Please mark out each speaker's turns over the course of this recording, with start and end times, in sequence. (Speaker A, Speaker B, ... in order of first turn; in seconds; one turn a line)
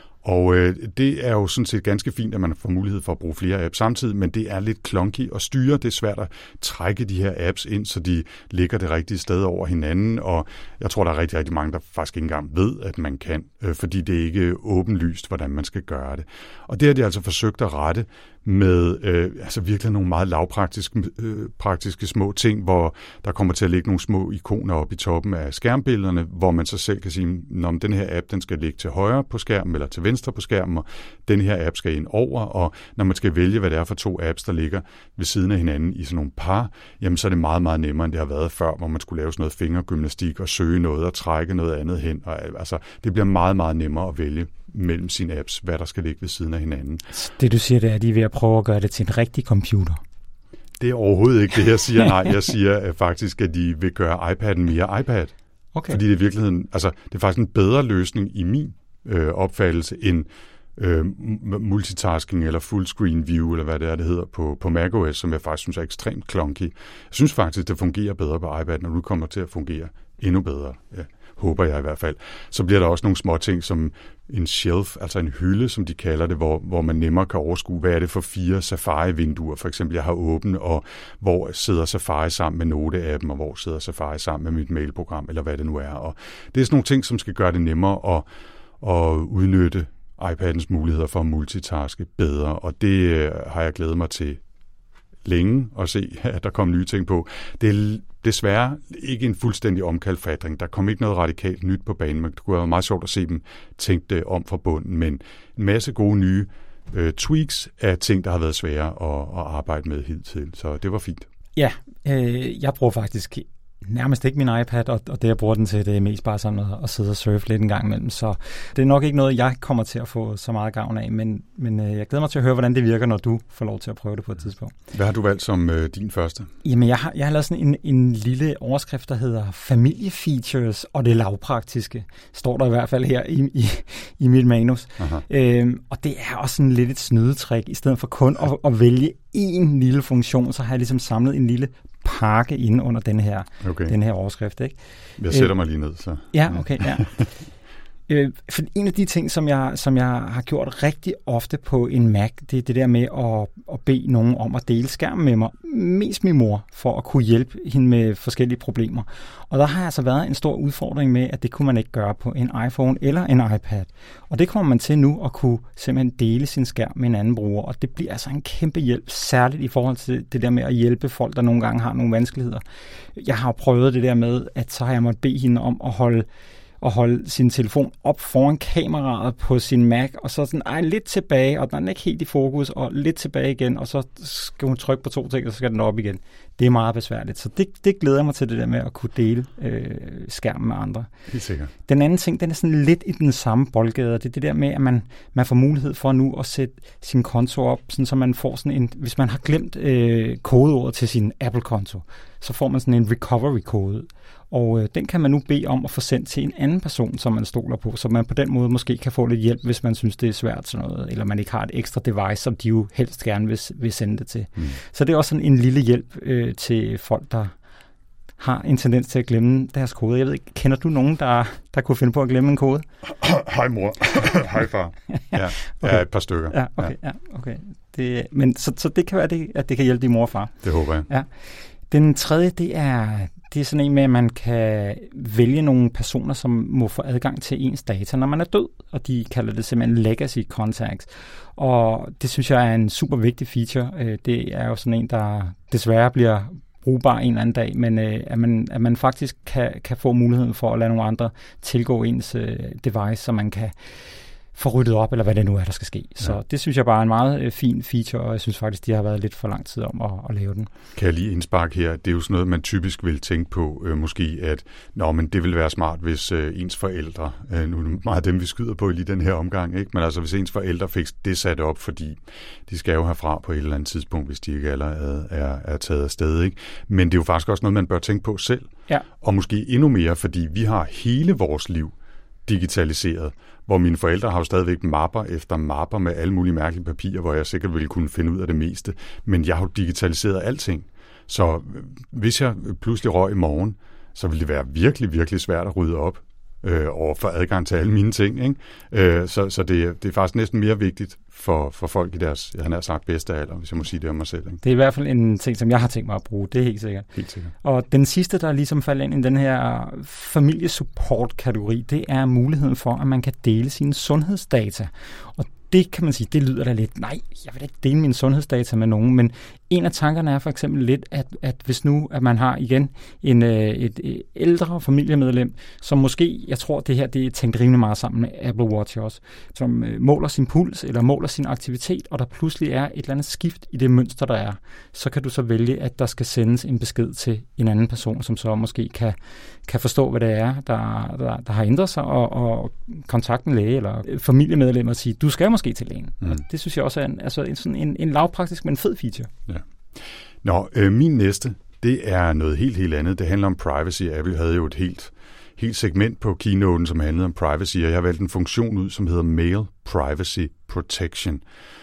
Speaker A: 0.2-47.0
Speaker B: 47.1-50.0
Speaker A: 50.8-55.3
Speaker B: 55.8-56.0
Speaker A: 55.9-88.3
Speaker A: 88.8-94.4
Speaker A: 95.2-111.3
Speaker B: 111.5-124.7
Speaker A: 124.9-126.5
Speaker B: 126.6-144.8
Speaker A: 135.0-135.2
Speaker A: 143.6-143.9
Speaker A: 145.2-147.2
Speaker B: 146.3-147.3
Speaker B: 148.1-172.6
Speaker B: 173.2-176.2
Speaker B: 176.8-191.1
Speaker A: 191.3-191.7
Speaker B: 191.9-217.5
Speaker B: 218.4-222.8
Speaker A: 223.1-226.9
Speaker B: 225.1-231.3
Speaker A: 230.6-231.1
Speaker B: 231.9-253.7
Speaker B: 254.5-260.7
Speaker A: 260.9-281.9
Speaker A: 282.5-304.6
Speaker B: 304.6-307.1
Speaker A: 307.1-307.5
Speaker B: 307.6-349.3
Speaker A: 349.5-361.4